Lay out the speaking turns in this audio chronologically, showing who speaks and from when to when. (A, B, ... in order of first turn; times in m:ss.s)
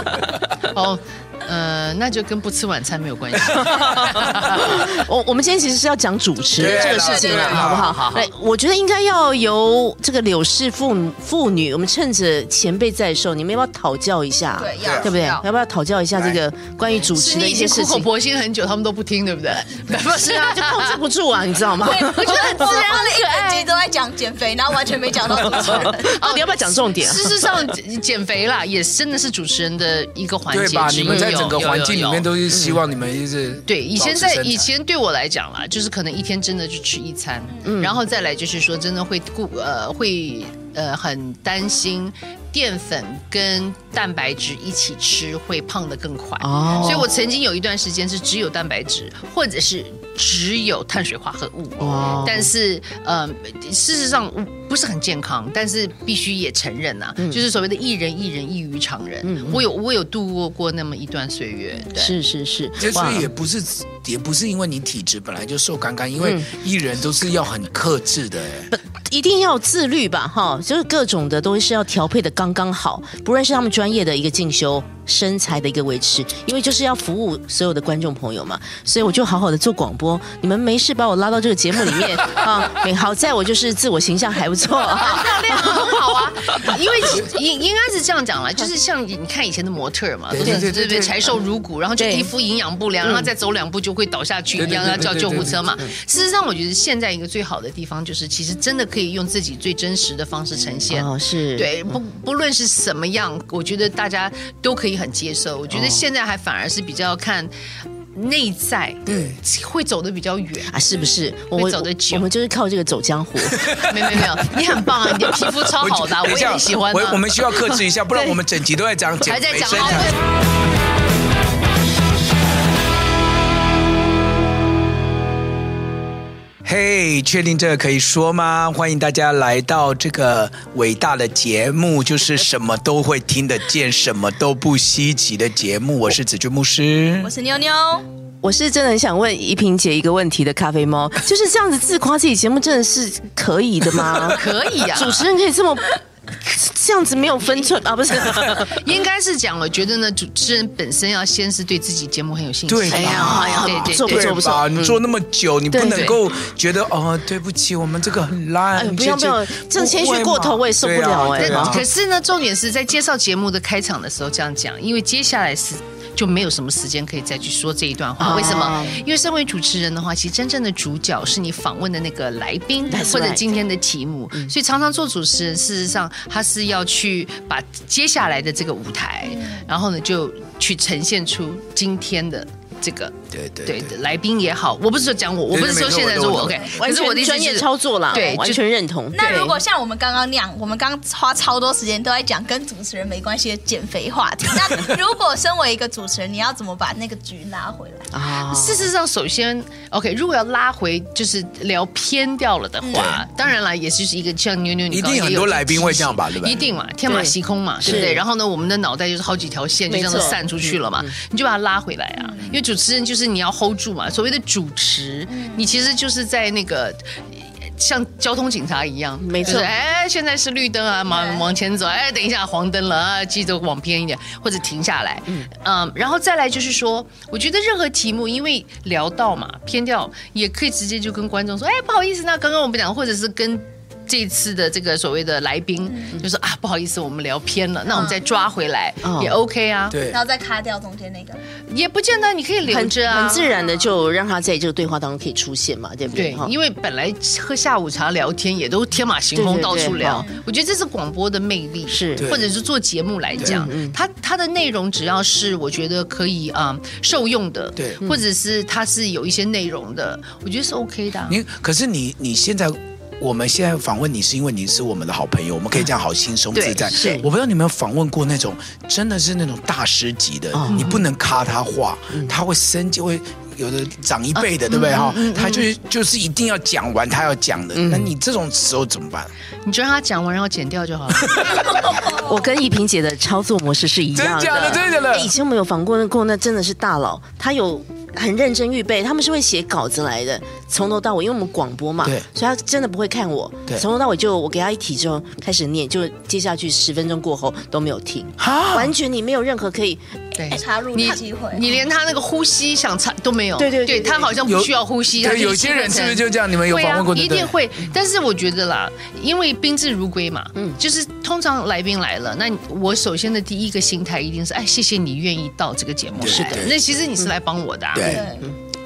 0:00.7-0:04.8 A
0:03.5-0:04.6 B
0:03.6-0:18.1 C
0:06.5-0:07.9 B
0:06.6-0:07.7 D
0:07.4-0:08.3 A
0:14.5-0:15.4 D
0:14.8-0:15.1 B
0:16.1-0:16.4 B
0:17.1-0:21.0 A
0:19.9-0:22.6 C
0:21.8-0:26.2 D
0:21.8-0:23.7 A
0:25.3-0:27.7 C
0:25.4-0:32.2 A
0:30.5-0:34.7 B
0:31.0-0:31.6 C
0:32.5-0:32.8 C
0:33.6-1:02.2 A
0:37.6-0:38.0 C
0:46.4-0:47.1 C
0:51.8-0:52.5 C
0:59.2-0:59.6 C
1:01.9-1:03.3 C
1:02.8-1:08.7 B
1:02.9-1:03.2 A
1:06.2-1:06.5 C
1:08.7-1:26.7 C
1:24.8-1:47.5 A
1:30.3-1:31.3 B
1:30.4-1:30.7 C
1:32.0-1:32.3 C
1:33.0-1:33.3 C
1:34.6-1:35.6 B
1:34.6-1:35.9 C
1:40.9-1:41.9 C
1:45.7-1:46.0 C
1:48.1-1:50.8 A
1:49.1-1:49.4 C
1:50.7-1:53.7 C
1:51.5-1:52.3 A
1:53.5-1:54.2 B
1:53.8-1:57.4 A
1:55.6-2:00.1 B
1:59.2-2:00.1 A
2:06.6-2:17.3 B
2:17.2-2:18.0 D
2:18.4-2:25.9 C
2:24.2-2:25.2 A
2:26.4-2:28.8 C
2:28.3-2:34.4 A
2:32.7-2:41.8 B
2:32.9-2:35.0 C
2:35.7-2:36.2 C
2:35.9-2:36.2 A
2:38.8-2:41.8 C
2:41.3-3:08.6 A
2:48.2-2:49.0 C
2:52.9-2:53.5 C
2:59.3-2:59.6 D
3:03.3-3:03.9 B
3:05.5-3:06.8 B
3:06.8-3:09.6 C
3:08.1-3:08.4 D
3:09.1-3:18.1 D
3:09.2-3:09.5 A
3:18.1-3:18.9 C
3:18.5-3:37.1 A
3:22.8-3:23.2 D
3:22.9-3:23.2 B
3:24.9-3:26.7 B
3:27.0-3:28.2 C
3:29.9-3:31.1 C
3:35.3-3:35.6 D
3:37.8-4:00.0 A
3:39.2-3:39.7 C
3:41.1-3:41.4 D
3:59.0-3:59.4 C
3:59.9-4:00.2 B
4:00.1-4:01.4 D
4:01.7-4:03.5 A
4:02.6-4:06.5 C
4:03.3-4:03.9 D
4:06.1-4:21.4 A
4:09.3-4:10.2 C
4:09.9-4:10.4 D
4:11.9-4:12.3 C
4:12.2-4:12.5 B
4:13.4-4:14.0 C
4:17.8-4:18.0 B
4:21.3-4:39.3 B
4:26.5-4:27.2 A
4:26.9-4:27.3 C
4:30.5-4:30.9 C
4:30.7-4:31.0 A
4:34.3-4:35.7 A
4:37.7-4:38.1 C
4:39.6-4:41.7 A
4:41.2-4:41.8 B
4:41.9-4:42.2 D
4:42.0-5:00.0 C
4:44.1-4:45.3 B
4:58.4-4:58.9 B
5:00.3-5:18.2 A
5:00.5-5:01.7 D
5:03.6-5:04.4 C
5:04.4-5:07.5 B
5:16.1-5:16.8 B
5:16.2-5:17.2 C
5:17.9-5:18.3 B
5:18.0-5:18.5 D
5:18.1-5:18.5 C